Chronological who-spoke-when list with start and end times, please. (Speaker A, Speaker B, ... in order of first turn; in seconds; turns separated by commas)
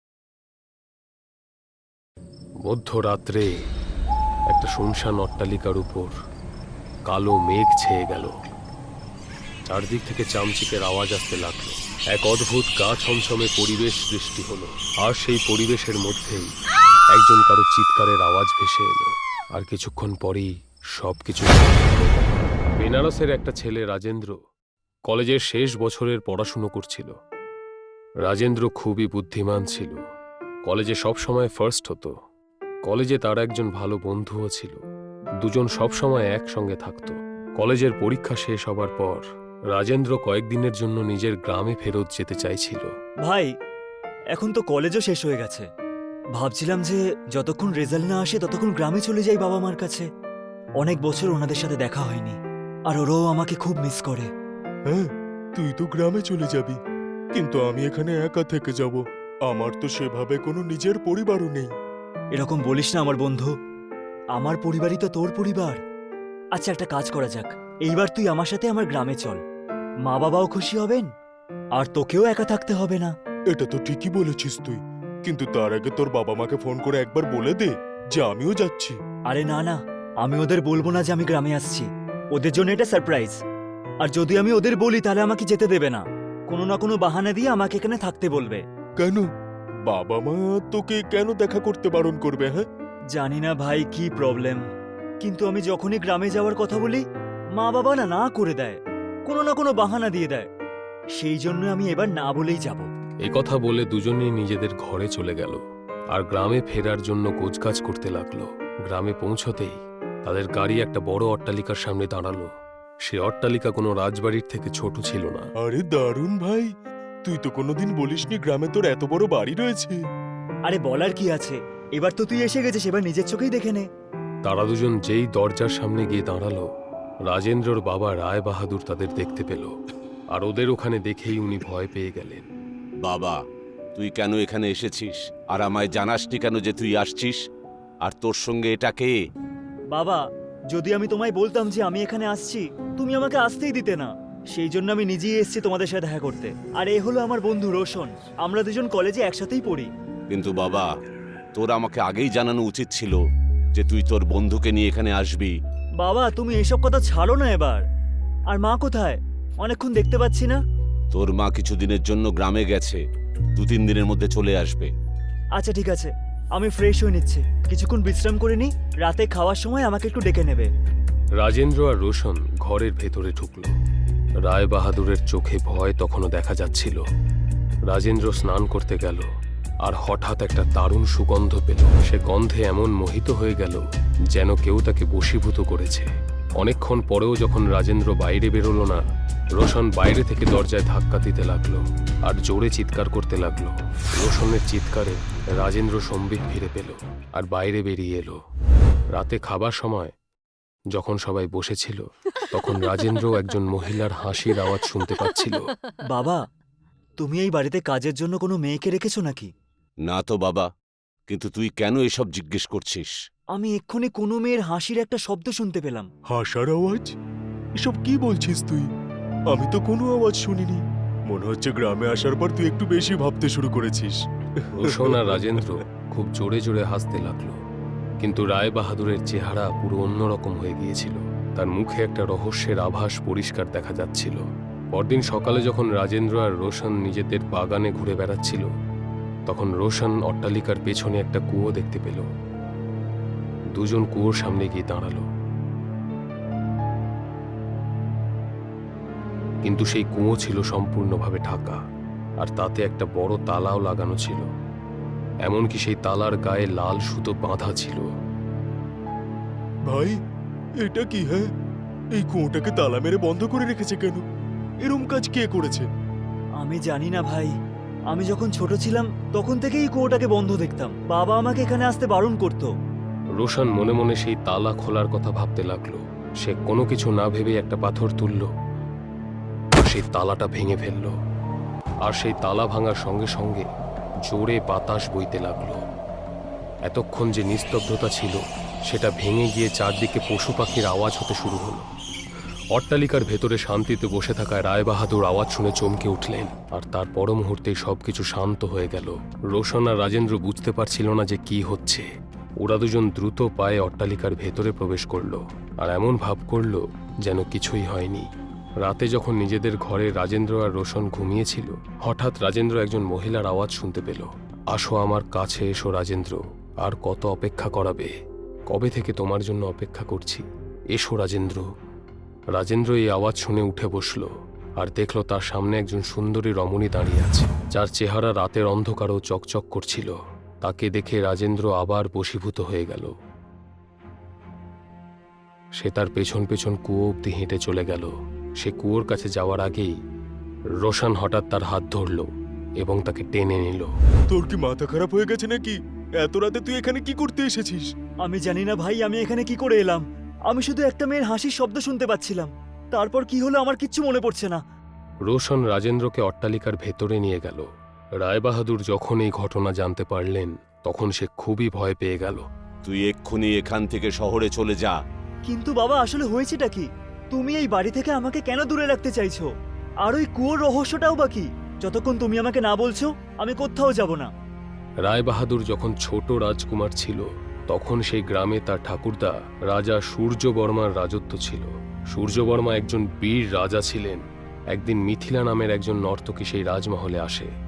Speaker A: 2.7-3.5, Speaker A: 4.5-6.1, Speaker A: 7.1-8.3, Speaker A: 9.7-16.5, Speaker A: 17.1-24.4, Speaker A: 25.1-27.1, Speaker A: 28.3-30.0, Speaker A: 30.7-32.1, Speaker A: 32.9-34.8, Speaker A: 35.4-42.9, Speaker B: 43.2-43.5, Speaker B: 44.3-45.7, Speaker B: 46.4-50.1, Speaker B: 50.8-52.4, Speaker B: 52.9-54.3, Speaker C: 54.9-56.8, Speaker C: 57.4-61.7, Speaker B: 62.4-63.5, Speaker B: 64.4-65.8, Speaker B: 66.5-69.4, Speaker B: 70.1-71.1, Speaker B: 71.8-73.1, Speaker C: 73.5-79.0, Speaker B: 79.3-83.4, Speaker B: 84.0-88.6, Speaker C: 89.0-89.3, Speaker C: 89.9-92.7, Speaker B: 93.1-94.6, Speaker B: 95.2-97.0, Speaker B: 97.6-100.5, Speaker B: 101.2-102.9, Speaker A: 103.3-105.6, Speaker A: 106.1-109.8, Speaker A: 110.3-112.5, Speaker A: 113.0-115.5, Speaker C: 115.6-116.7, Speaker C: 117.2-120.0, Speaker B: 120.7-123.9, Speaker A: 124.5-126.7, Speaker A: 127.3-129.7, Speaker A: 130.3-132.5, Speaker D: 133.0-133.4, Speaker D: 134.0-137.4, Speaker D: 138.1-139.2, Speaker B: 139.9-149.9, Speaker D: 150.3-150.9, Speaker D: 151.6-153.2, Speaker D: 153.8-155.5, Speaker B: 156.0-157.8, Speaker B: 158.5-160.6, Speaker D: 161.1-163.0, Speaker D: 163.6-164.9, Speaker B: 165.6-170.7, Speaker A: 171.4-173.7, Speaker A: 174.4-177.0, Speaker A: 177.9-179.2, Speaker A: 179.8-183.8, Speaker A: 184.3-186.1, Speaker A: 186.6-189.0, Speaker A: 189.6-198.4, Speaker A: 199.2-200.1, Speaker A: 200.9-205.7, Speaker B: 206.1-206.4, Speaker B: 207.2-209.5, Speaker D: 210.1-210.7, Speaker D: 211.3-213.1, Speaker B: 213.5-216.1, Speaker C: 216.3-217.1, Speaker C: 217.8-218.9, Speaker C: 219.5-225.4, Speaker A: 224.8-227.6, Speaker A: 228.2-234.4, Speaker A: 234.9-238.7, Speaker A: 239.5-242.3, Speaker A: 243.8-245.3, Speaker A: 249.6-251.8, Speaker A: 252.4-254.5, Speaker A: 255.4-258.1, Speaker C: 259.9-260.2, Speaker C: 260.8-261.5, Speaker C: 262.2-264.2, Speaker C: 264.9-265.9, Speaker B: 266.6-267.5, Speaker B: 268.1-272.7, Speaker A: 273.4-278.5, Speaker A: 279.8-281.1, Speaker A: 282.1-283.6, Speaker A: 284.3-285.8, Speaker A: 286.9-291.8, Speaker A: 292.8-302.1, Speaker A: 302.6-308.3, Speaker A: 308.8-318.1, Speaker A: 318.7-320.4, Speaker A: 320.9-321.7, Speaker A: 322.6-324.3, Speaker A: 324.8-333.1, Speaker A: 335.8-339.9, Speaker A: 340.8-342.3, Speaker A: 342.8-343.9, Speaker C: 344.3-347.9, Speaker B: 348.2-354.6, Speaker A: 355.3-357.6, Speaker A: 358.2-362.4, Speaker D: 362.9-364.9, Speaker B: 365.5-369.5, Speaker B: 370.0-374.3, Speaker A: 375.0-387.5